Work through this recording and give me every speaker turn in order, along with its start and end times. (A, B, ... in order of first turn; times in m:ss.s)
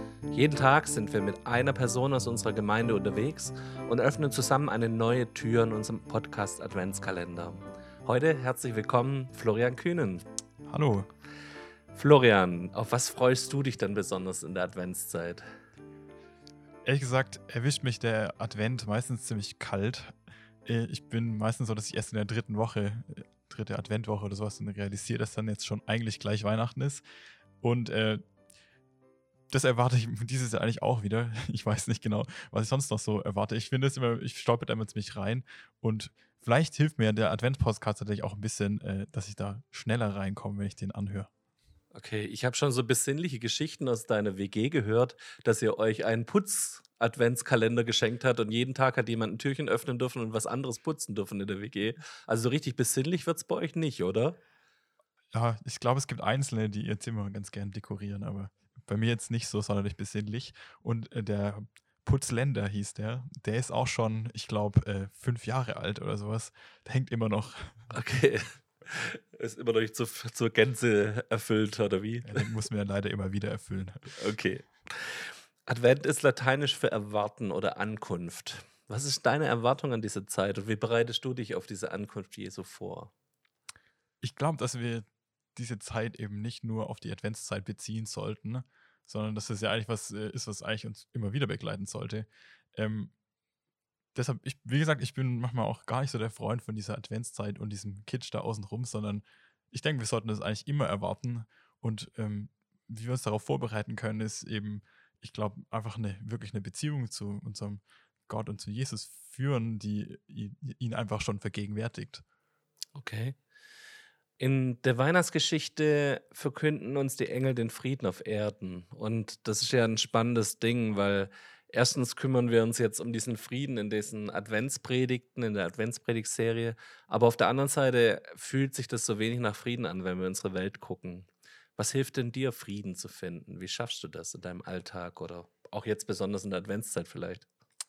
0:00.3-0:10.2 A
0:10.7-0:11.1 B
0:11.9-0:15.4 A
0:16.8-0:20.1 B
0:20.6-0:27.0 B
0:27.6-0:28.2 B
0:29.5-0:41.3 B
0:41.9-0:54.4 A
0:55.3-1:07.9 B
1:07.9-1:12.5 A
1:12.2-1:14.2 B
1:14.1-1:23.1 A
1:24.2-1:33.1 B
1:34.2-1:52.2 B
1:53.0-1:53.4 A
1:54.4-2:17.5 A